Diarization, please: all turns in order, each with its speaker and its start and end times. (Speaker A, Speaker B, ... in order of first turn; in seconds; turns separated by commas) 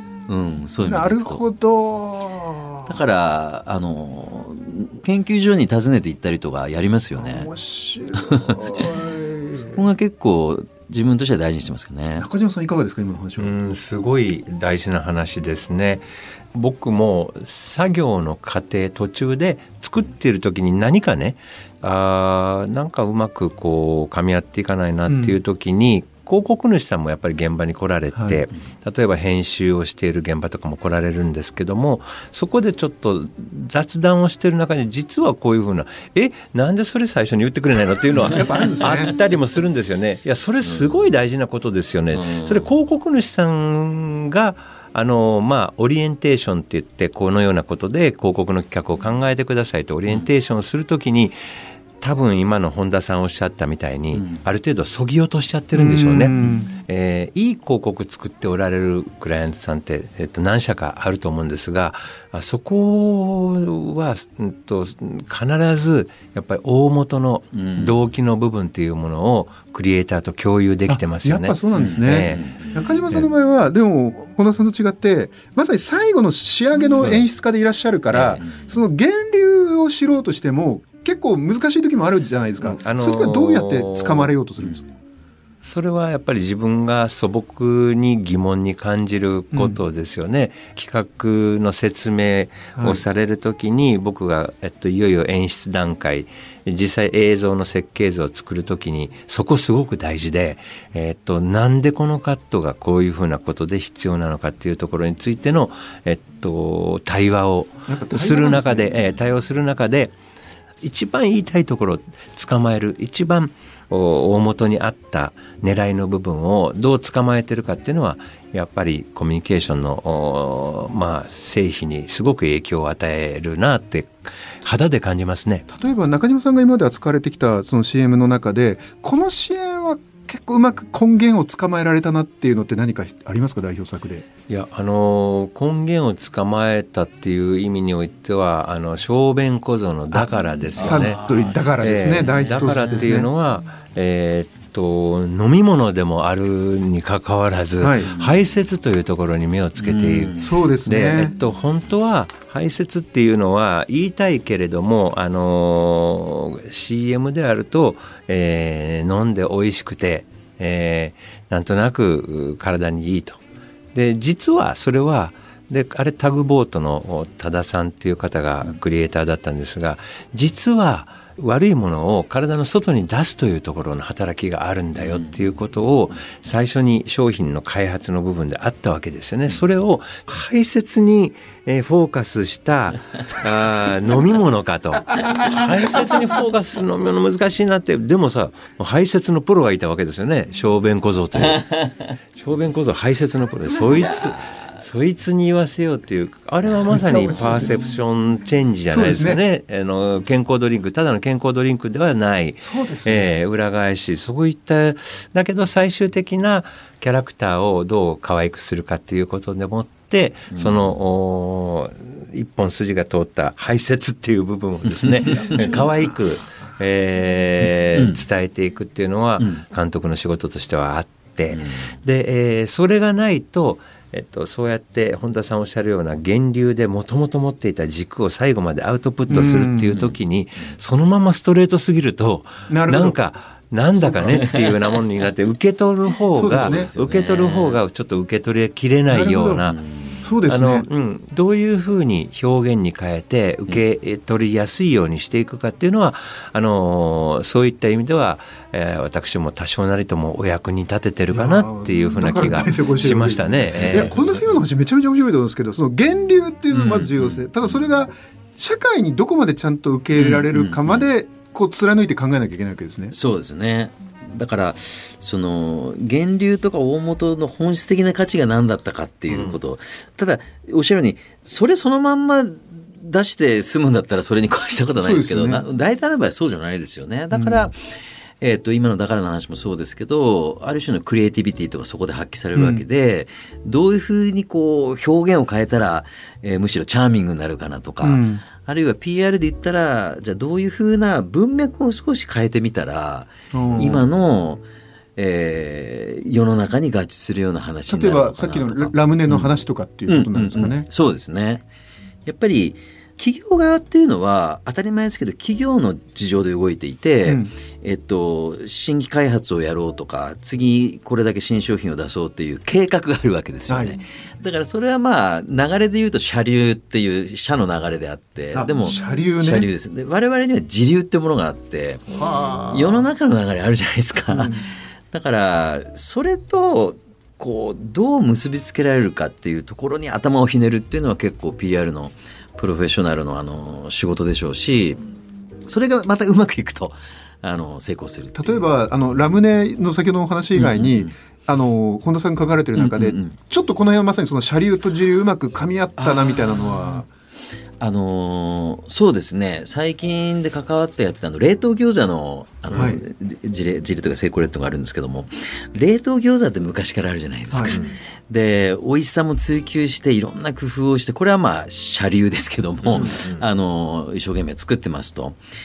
Speaker A: 0.3-1.4, Speaker B: 0.8-3.0, Speaker A: 2.9-7.5, Speaker B: 7.1-9.8, Speaker A: 8.1-8.8, Speaker A: 9.5-12.3, Speaker B: 12.2-13.5, Speaker C: 13.4-51.4, Speaker B: 25.1-25.4, Speaker B: 38.1-39.1, Speaker A: 38.2-39.1, Speaker A: 40.6-41.1, Speaker A: 42.1-42.7, Speaker C: 52.0-73.2, Speaker A: 54.1-54.4, Speaker B: 55.7-56.6, Speaker A: 67.5-67.9, Speaker B: 70.9-84.8, Speaker A: 71.8-72.7, Speaker C: 77.0-77.2, Speaker A: 78.1-78.8, Speaker C: 82.6-84.3, Speaker C: 85.6-110.1, Speaker B: 89.5-89.8, Speaker B: 92.8-93.0, Speaker B: 107.9-109.0, Speaker C: 110.8-125.7, Speaker B: 125.7-134.2, Speaker C: 134.5-163.4, Speaker B: 140.1-143.3, Speaker A: 140.8-143.1, Speaker B: 147.8-148.1, Speaker A: 148.0-148.4, Speaker A: 149.8-150.5, Speaker B: 150.4-151.3, Speaker C: 163.9-191.7, Speaker A: 174.9-175.4, Speaker B: 185.2-185.6, Speaker A: 185.2-185.6, Speaker A: 191.3-192.1, Speaker C: 192.3-239.8, Speaker A: 193.9-194.3, Speaker B: 196.9-197.9, Speaker B: 198.9-199.4, Speaker B: 202.6-203.3, Speaker A: 210.5-210.9, Speaker A: 214.9-215.9, Speaker B: 215.3-215.9, Speaker A: 217.9-218.2, Speaker A: 221.5-221.9, Speaker B: 229.3-229.9, Speaker A: 229.3-230.2, Speaker B: 232.7-233.2, Speaker B: 234.0-234.5, Speaker A: 234.3-234.8, Speaker A: 236.3-237.8, Speaker B: 236.3-236.9, Speaker B: 239.1-239.6, Speaker A: 239.7-240.3, Speaker B: 240.2-240.8, Speaker C: 240.4-254.1, Speaker B: 251.3-263.1, Speaker A: 253.7-254.5, Speaker A: 256.7-257.4, Speaker A: 260.1-261.1, Speaker A: 263.1-294.6, Speaker C: 269.3-269.6, Speaker B: 275.0-275.6, Speaker B: 277.3-277.7, Speaker B: 282.5-282.8, Speaker B: 288.0-288.4, Speaker B: 293.5-294.1, Speaker A: 295.1-299.5, Speaker B: 297.9-300.9, Speaker A: 300.1-301.6, Speaker A: 302.2-322.1, Speaker B: 307.2-307.5, Speaker B: 313.7-314.0, Speaker B: 318.5-319.7, Speaker B: 322.1-323.1, Speaker A: 322.7-335.0, Speaker B: 324.3-324.7, Speaker A: 335.7-338.6, Speaker B: 338.3-347.1, Speaker A: 340.5-341.1, Speaker A: 342.8-343.3, Speaker A: 346.0-347.0, Speaker A: 347.8-365.4, Speaker B: 352.7-353.0, Speaker B: 357.5-357.8, Speaker C: 357.6-357.9, Speaker C: 362.8-363.4